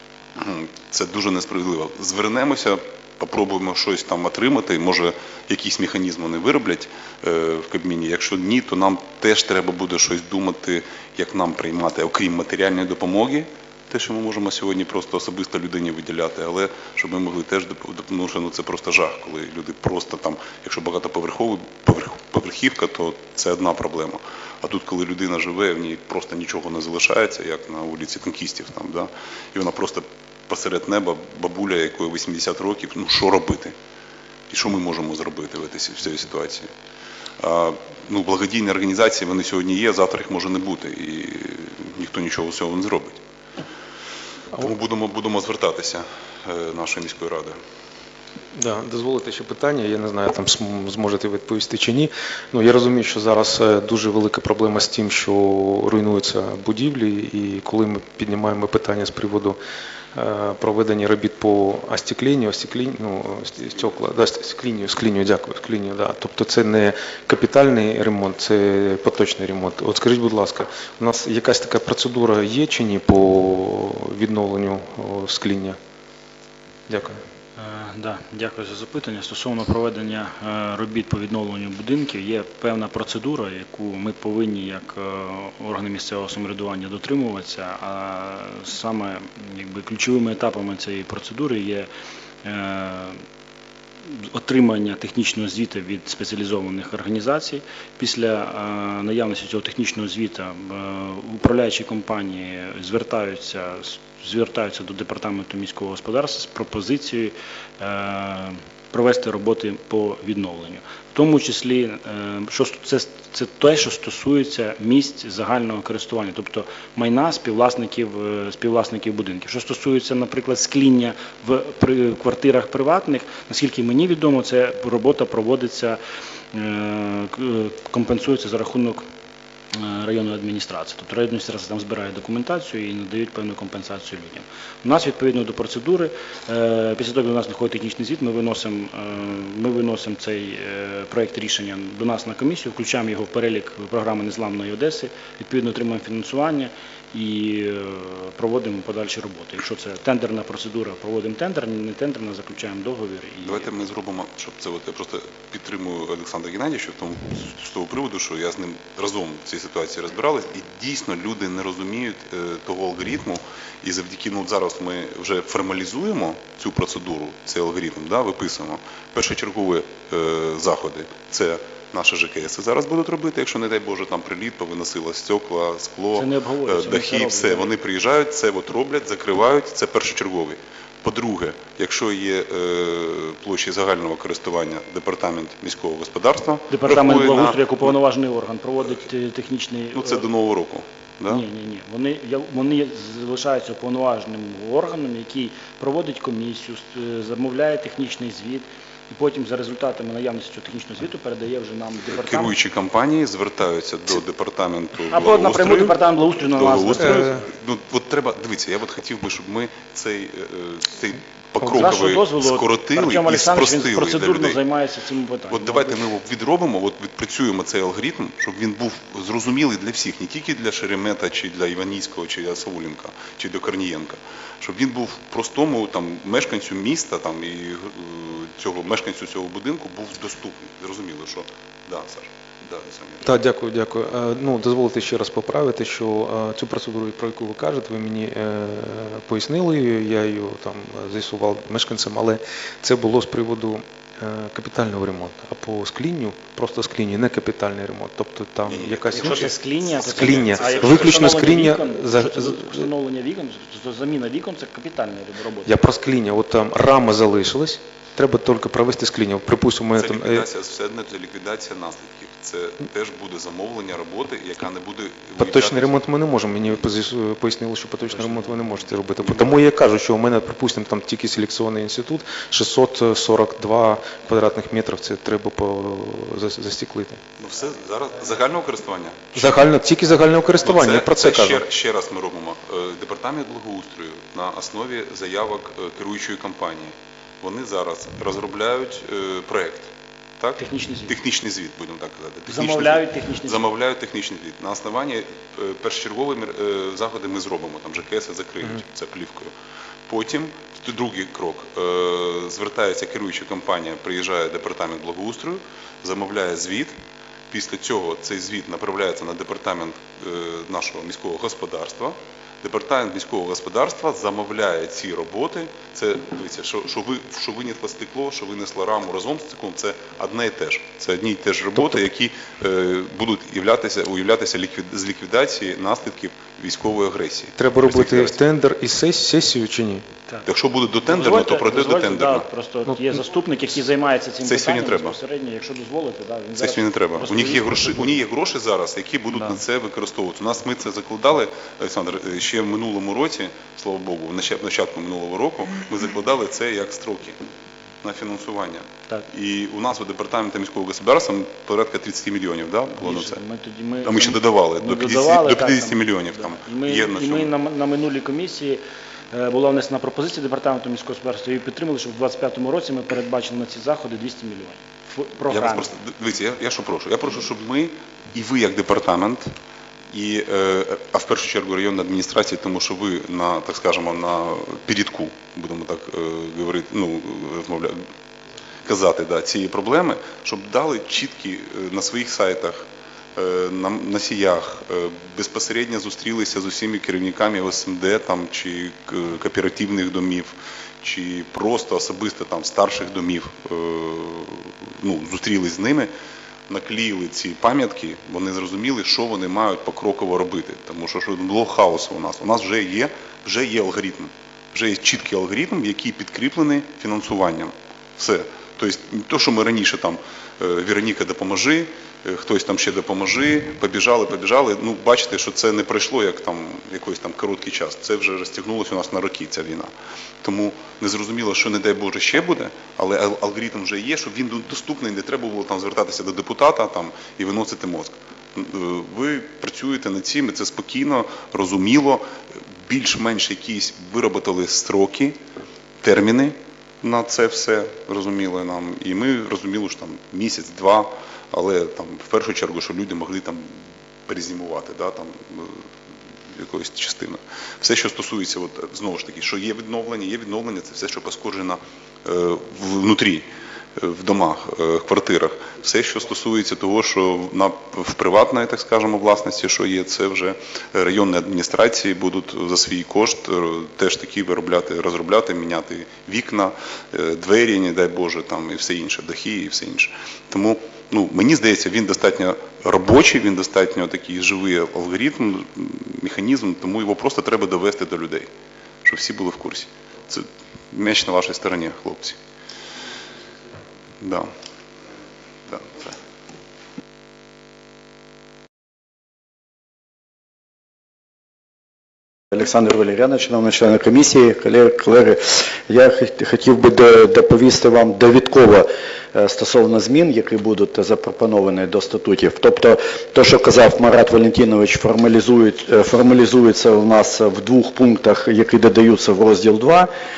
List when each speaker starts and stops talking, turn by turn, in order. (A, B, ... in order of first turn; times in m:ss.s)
0:00.4-0:33.8 A
0:34.5-0:36.7 A
0:37.4-0:43.2 A
0:44.5-0:47.6 A
0:48.5-0:59.6 B
1:00.1-1:15.8 B
1:16.9-1:17.2 B
1:17.6-1:31.9 C
1:32.4-1:33.2 C
1:34.1-2:06.0 C
2:06.5-2:09.0 C
2:09.7-2:33.7 C
2:33.4-3:08.0 A
2:56.2-2:57.7 C
3:06.7-3:10.2 C
3:10.0-3:11.4 A
3:11.3-3:22.6 C
3:22.1-3:26.0 A
3:25.1-3:27.4 C
3:26.5-3:34.6 A
3:27.0-3:27.4 B
3:31.6-3:36.0 C
3:35.5-3:53.3 A
3:53.2-4:12.9 B
4:08.7-4:11.4 A
4:09.1-4:15.7 C
4:15.6-4:20.4 B
4:20.0-4:26.0 A
4:25.4-4:37.2 B
4:37.4-4:39.6 A
4:39.4-4:41.6 B
4:40.6-4:59.5 A
4:50.6-4:51.1 C
4:52.5-4:53.6 C
5:00.1-5:06.9 A
5:07.5-5:28.4 A
5:27.6-5:30.0 B
5:30.5-5:32.4 A
5:31.1-5:38.2 C
5:34.4-5:35.2 A
5:36.6-5:47.4 A
5:48.0-5:53.4 A
5:53.0-5:58.8 C
5:54.0-5:57.5 A
5:59.3-6:05.9 C
6:05.5-6:09.5 A
6:10.1-6:18.0 A
6:18.8-6:22.8 A
6:23.4-6:36.1 A
6:36.7-6:59.9 A
7:00.4-7:12.2 A
7:12.8-7:15.4 A
7:16.0-7:23.7 A
7:24.3-7:25.8 A
7:26.5-7:33.5 A
7:34.0-7:58.5 A
7:59.0-8:02.4 A
8:04.2-8:04.5 A
8:05.7-8:06.1 A
8:12.5-8:30.1 D